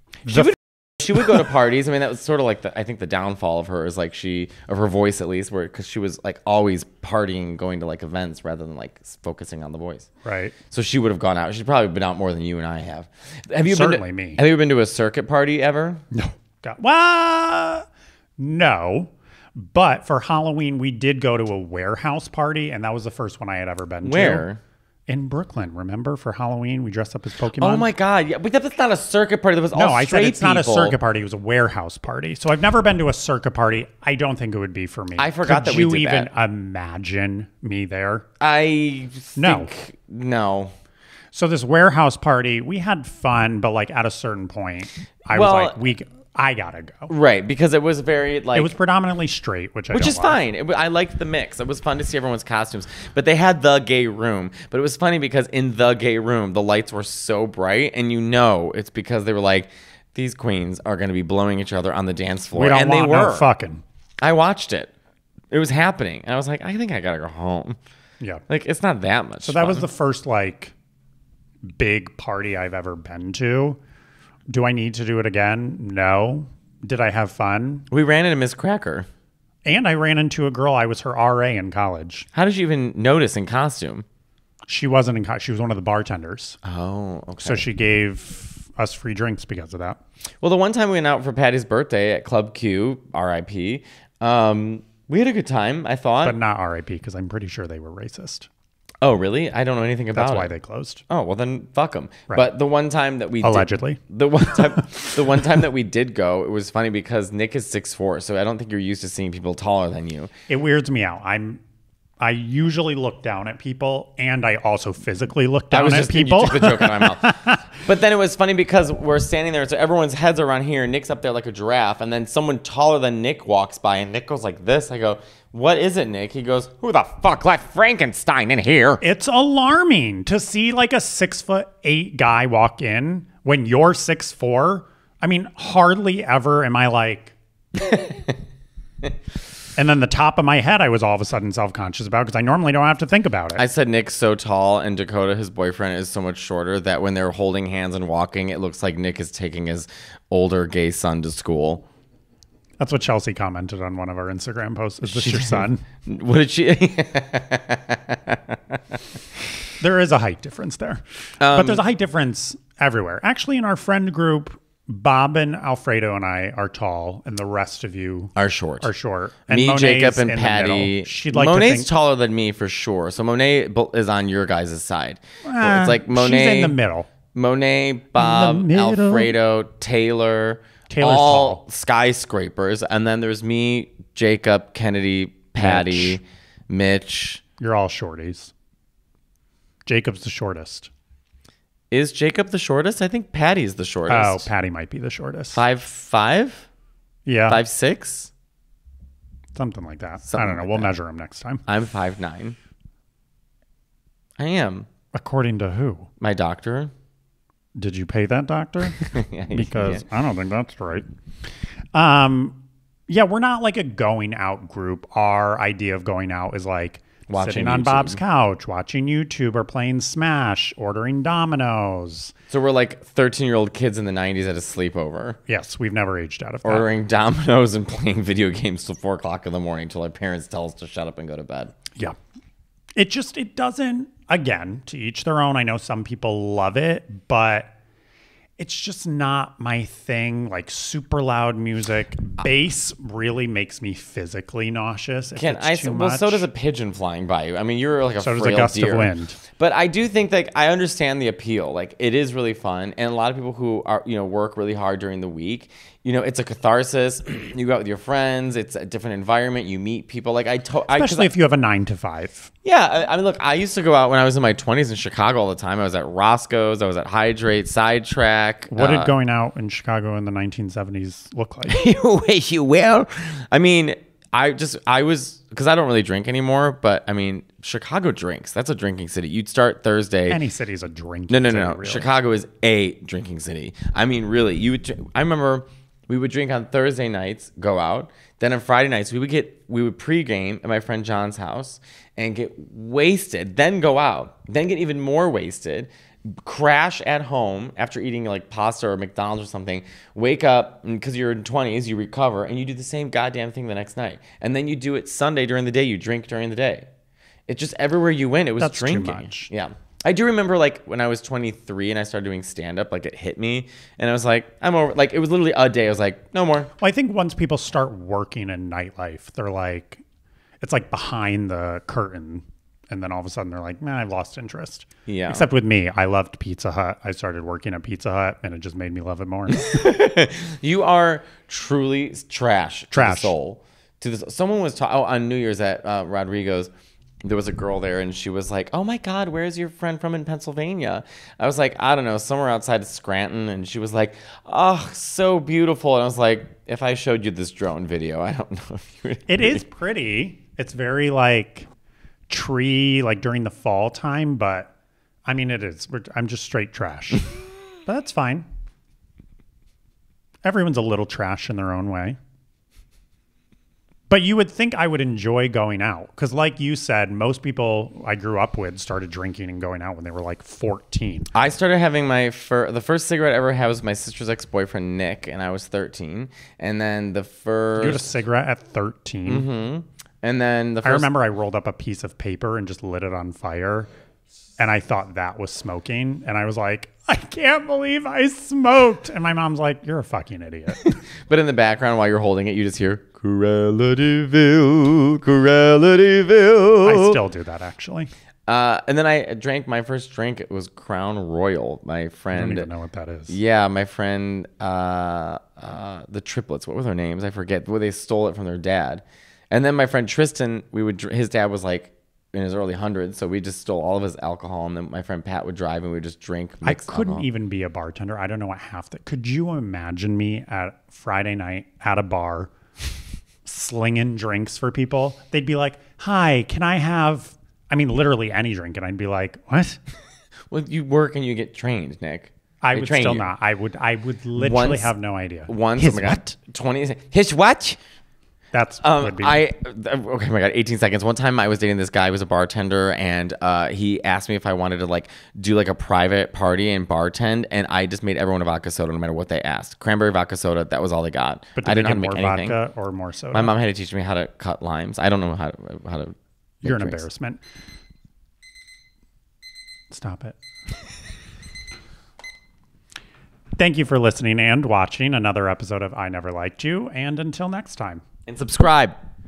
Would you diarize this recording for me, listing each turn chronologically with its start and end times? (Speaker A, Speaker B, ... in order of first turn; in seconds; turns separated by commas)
Speaker A: 0.2-0.6, Speaker B: 0.3-10.1, Speaker A: 10.2-10.6, Speaker B: 10.7-16.0, Speaker A: 13.7-14.4, Speaker A: 16.1-17.9, Speaker A: 18.4-24.5, Speaker B: 24.0-24.6, Speaker A: 25.1-27.9, Speaker B: 27.6-31.0, Speaker A: 29.7-38.2, Speaker B: 35.2-36.3, Speaker B: 38.4-40.7, Speaker A: 39.4-39.7, Speaker A: 41.3-47.1, Speaker B: 45.3-45.8, Speaker B: 47.1-48.7, Speaker A: 48.5-50.4, Speaker B: 49.9-63.5, Speaker A: 62.5-63.8, Speaker B: 64.2-64.9, Speaker B: 65.5-67.8, Speaker B: 68.5-69.9, Speaker A: 69.4-70.7, Speaker A: 71.7-73.8, Speaker A: 74.5-77.8, Speaker B: 77.9-79.1, Speaker A: 79.6-82.3, Speaker B: 82.3-84.0, Speaker A: 84.7-86.6, Speaker B: 86.6-87.6, Speaker A: 87.4-90.0, Speaker B: 90.4-96.4, Speaker A: 96.2-98.5, Speaker B: 99.0-100.5, Speaker A: 100.1-101.0, Speaker B: 101.1-110.3, Speaker A: 103.4-104.0, Speaker A: 110.5-111.6, Speaker A: 112.2-117.6, Speaker B: 115.7-129.0, Speaker A: 129.0-137.3, Speaker B: 137.8-138.2, Speaker A: 139.8-143.6, Speaker B: 143.6-151.8, Speaker A: 152.8-155.8, Speaker B: 155.1-158.8, Speaker A: 159.8-171.9, Speaker B: 161.4-161.8, Speaker B: 168.4-168.9, Speaker B: 169.5-176.7, Speaker A: 175.4-177.1, Speaker B: 177.3-187.4, Speaker A: 178.2-179.3, Speaker A: 180.9-181.6, Speaker A: 185.6-186.2, Speaker A: 187.6-188.5, Speaker A: 189.8-190.9, Speaker B: 191.9-194.5, Speaker A: 194.1-195.6, Speaker B: 195.5-196.7, Speaker A: 197.2-197.6, Speaker B: 197.5-198.3, Speaker A: 199.5-201.6, Speaker B: 200.2-200.9, Speaker B: 201.7-202.6, Speaker B: 204.4-204.9, Speaker A: 205.1-206.1, Speaker B: 206.2-206.9, Speaker A: 207.8-211.1, Speaker B: 209.1-210.0, Speaker A: 211.9-222.3, Speaker B: 217.3-218.2, Speaker B: 222.5-225.4, Speaker A: 225.5-226.9, Speaker B: 226.6-231.7, Speaker A: 232.9-237.7, Speaker A: 238.6-246.4, Speaker B: 245.3-261.3, Speaker A: 248.2-249.4, Speaker A: 260.9-262.5, Speaker B: 262.6-269.1, Speaker A: 268.7-271.7, Speaker B: 271.7-280.4, Speaker A: 280.3-282.1, Speaker B: 281.3-306.9, Speaker B: 307.5-316.7, Speaker A: 308.6-309.5, Speaker A: 316.8-320.0, Speaker A: 320.6-329.8, Speaker B: 325.1-325.4, Speaker B: 329.5-336.7, Speaker A: 332.9-333.3, Speaker B: 337.2-349.6, Speaker A: 349.3-351.7, Speaker A: 352.3-354.7, Speaker A: 355.2-357.3, Speaker A: 357.9-358.5, Speaker A: 360.4-362.2, Speaker A: 364.1-371.3, Speaker B: 371.3-378.1, Speaker A: 377.8-379.4, Speaker B: 379.3-381.1, Speaker A: 380.8-383.9, Speaker A: 384.6-390.9, Speaker B: 390.8-397.2, Speaker A: 396.8-398.1, Speaker B: 398.5-402.7, Speaker A: 402.3-403.3, Speaker B: 403.3-417.2, Speaker A: 416.6-422.5, Speaker A: 423.4-429.8, Speaker B: 430.5-433.3, Speaker A: 432.6-436.3, Speaker B: 434.4-434.9, Speaker B: 435.5-437.8, Speaker A: 438.5-439.4, Speaker B: 438.8-452.6, Speaker A: 451.6-453.5, Speaker B: 453.3-457.0, Speaker A: 456.6-457.4, Speaker A: 459.9-460.4, Speaker A: 463.6-468.0, Speaker B: 468.3-468.9